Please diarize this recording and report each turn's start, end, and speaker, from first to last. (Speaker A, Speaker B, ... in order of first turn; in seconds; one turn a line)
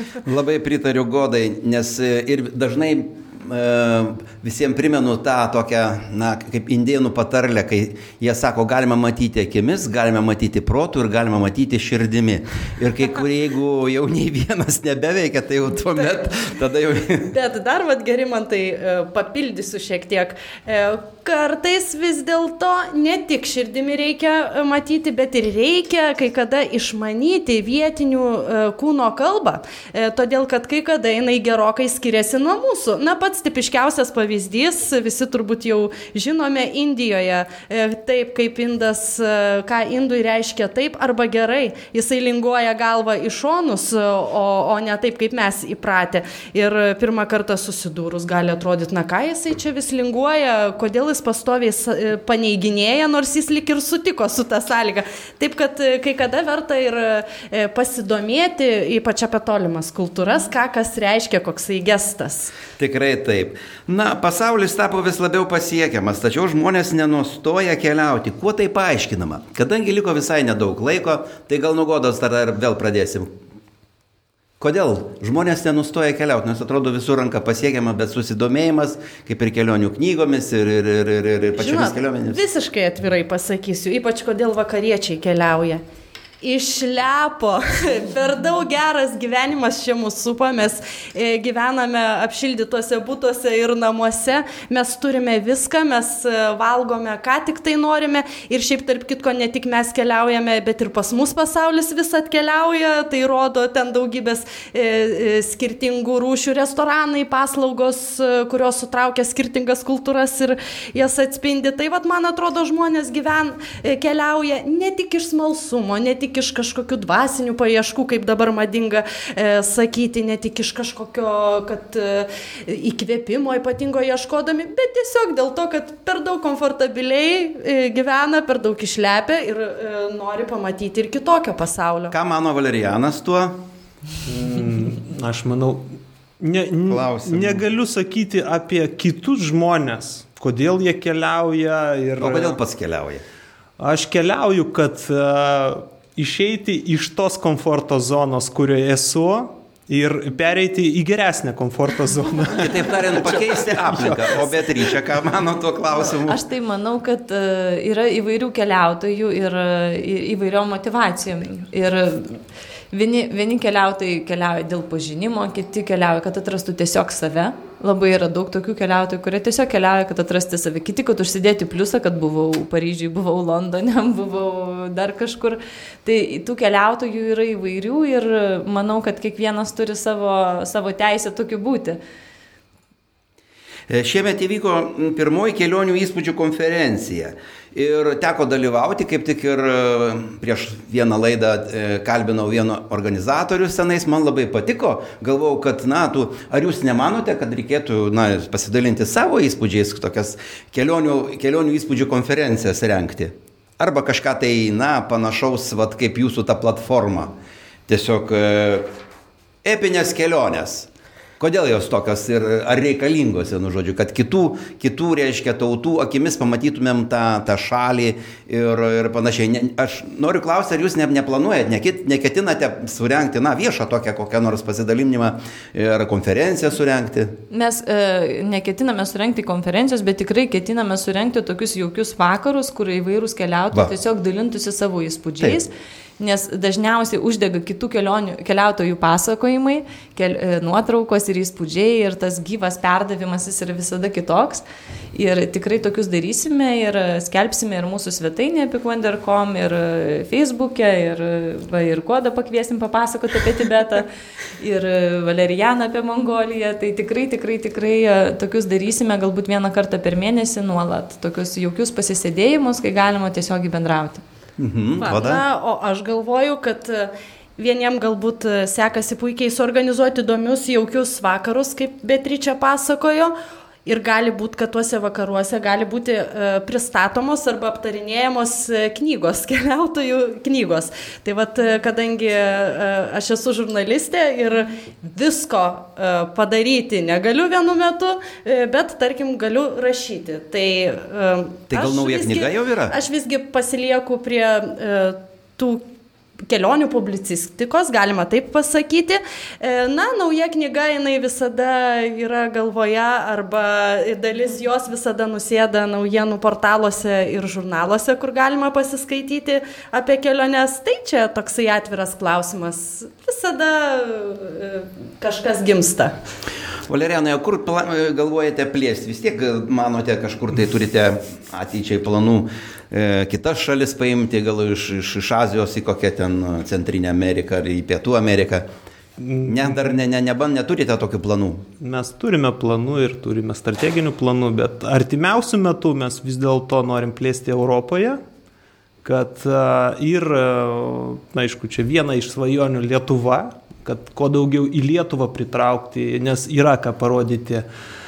Speaker A: 0.2-17.3
Speaker B: 17.3-62.5
Speaker A: 62.8-73.3
Speaker A: 74.6-82.4
Speaker B: 81.5-85.8
Speaker B: 86.4-132.1
Speaker A: 132.1-133.6
Speaker C: 134.2-142.6
Speaker A: 136.9-137.6
Speaker A: 142.2-143.2
Speaker C: 143.8-154.5
Speaker A: 152.5-156.4
Speaker D: 156.1-182.0
Speaker A: 183.9-207.3
Speaker A: 207.9-208.9
Speaker A: 209.6-227.4
Speaker D: 227.5-254.1
Speaker D: 254.6-264.2
Speaker A: 264.6-265.4
Speaker B: 265.0-273.3
Speaker B: 273.9-295.8
Speaker A: 291.7-292.9
Speaker B: 296.4-316.1
Speaker A: 316.9-328.7
Speaker C: 329.2-330.0
Speaker A: 329.4-331.7
Speaker C: 331.8-338.2
Speaker C: 339.0-347.6